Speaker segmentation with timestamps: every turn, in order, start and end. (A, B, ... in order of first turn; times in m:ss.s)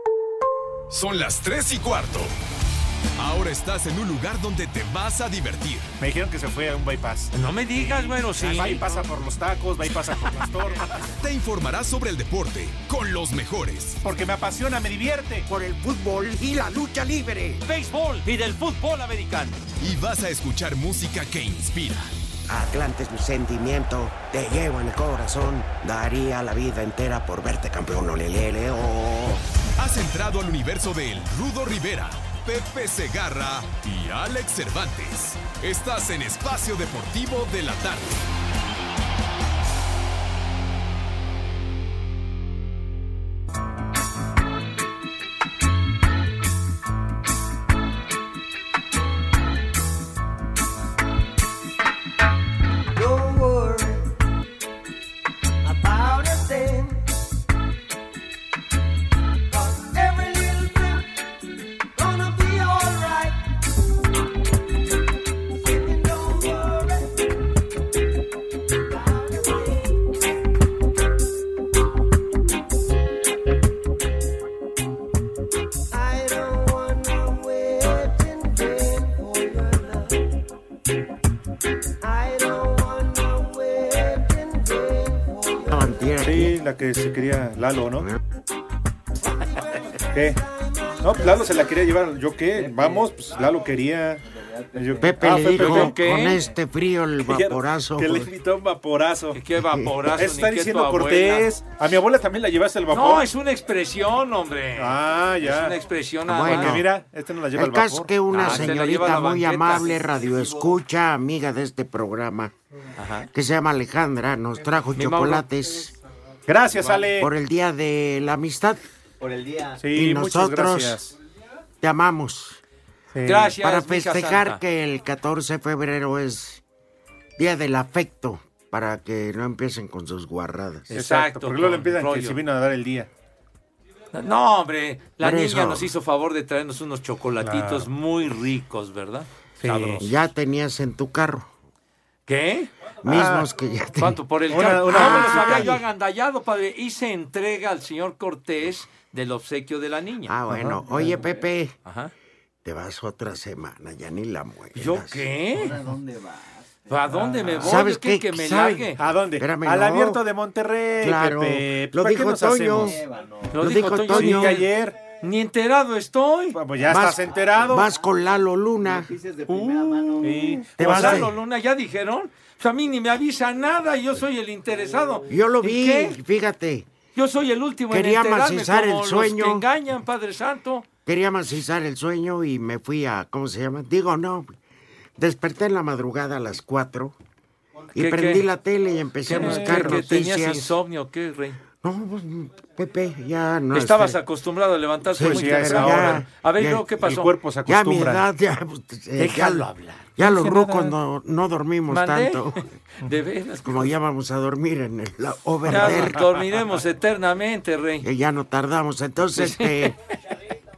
0:00.9-0:02.3 A
0:03.2-0:05.9 A
0:06.0-0:07.3 B
0:07.3-0:09.0 C
0:07.8-0:11.1 B
0:11.1-0:14.0 A
0:14.0-0:15.5 B
0:15.5-0:17.6 D
0:17.6-0:19.6 C
0:19.8-0:22.1 A
0:22.5-0:29.4 D
0:29.8-0:38.2 A
0:52.9-0:54.1 E
0:55.6-0:57.0 E
0:59.5-1:01.1 E
1:02.0-1:03.4 E
1:05.6-1:07.1 E
1:08.9-1:09.9 E
1:15.9-1:20.2 E
1:22.0-1:26.0 E
1:25.7-1:26.5 D
1:26.2-1:28.1 B
1:29.3-1:31.5 E
1:30.1-1:30.4 B
1:31.0-1:34.2 B
1:34.8-1:36.0 B
1:35.0-1:38.3 D
1:35.4-1:36.4 C
1:37.3-1:39.4 B
1:39.3-1:41.5 C
1:40.2-1:43.3 B
1:42.9-1:46.8 C
1:44.8-1:45.8 B
1:46.3-1:46.9 D
1:46.4-1:48.7 B
1:47.5-1:52.5 D
1:48.3-1:50.0 C
1:53.0-1:53.3 C
1:53.3-1:55.9 D
1:55.0-1:55.5 C
1:56.5-1:57.3 B
1:57.0-1:58.8 D
1:59.8-2:01.2 B
1:59.9-2:01.0 D
2:01.8-2:02.6 D
2:03.1-2:03.5 B
2:03.2-2:04.6 C
2:03.6-2:06.6 D
2:07.4-2:10.9 D
2:10.9-2:12.4 C
2:10.9-2:13.1 B
2:14.1-2:20.2 C
2:15.2-2:15.9 D
2:17.4-2:17.9 B
2:19.6-2:20.0 B
2:20.0-2:21.5 D
2:22.3-2:22.7 C
2:23.0-2:25.8 D
2:23.0-2:23.5 B
2:24.0-2:30.4 C
2:24.5-2:25.7 B
2:30.3-2:31.8 D
2:30.5-2:31.1 B
2:31.8-2:32.1 C
2:32.6-2:35.3 D
2:34.8-2:35.8 C
2:36.9-2:39.0 C
2:37.6-2:40.2 D
2:39.0-2:43.0 B
2:41.0-2:43.0 D
2:43.5-2:46.6 C
2:43.6-2:44.6 D
2:43.9-2:45.0 B
2:46.6-2:47.9 B
2:46.8-2:49.2 D
2:49.5-2:56.2 C
2:50.2-2:51.2 B
2:50.6-2:51.3 D
2:55.3-2:56.9 D
2:57.2-3:00.9 C
2:57.9-2:59.6 D
3:01.1-3:04.6 D
3:05.2-3:07.2 D
3:08.0-3:10.8 D
3:08.0-3:08.5 C
3:09.3-3:11.6 C
3:09.4-3:10.0 B
3:11.8-3:14.2 D
3:13.7-3:17.3 C
3:15.1-3:17.0 D
3:15.2-3:16.2 B
3:17.0-3:18.2 B
3:17.7-3:22.7 D
3:19.2-3:20.1 C
3:20.2-3:20.9 B
3:21.9-3:23.9 C
3:23.6-3:26.2 D
3:25.7-3:28.0 C
3:28.0-3:30.0 D
3:29.4-3:29.9 C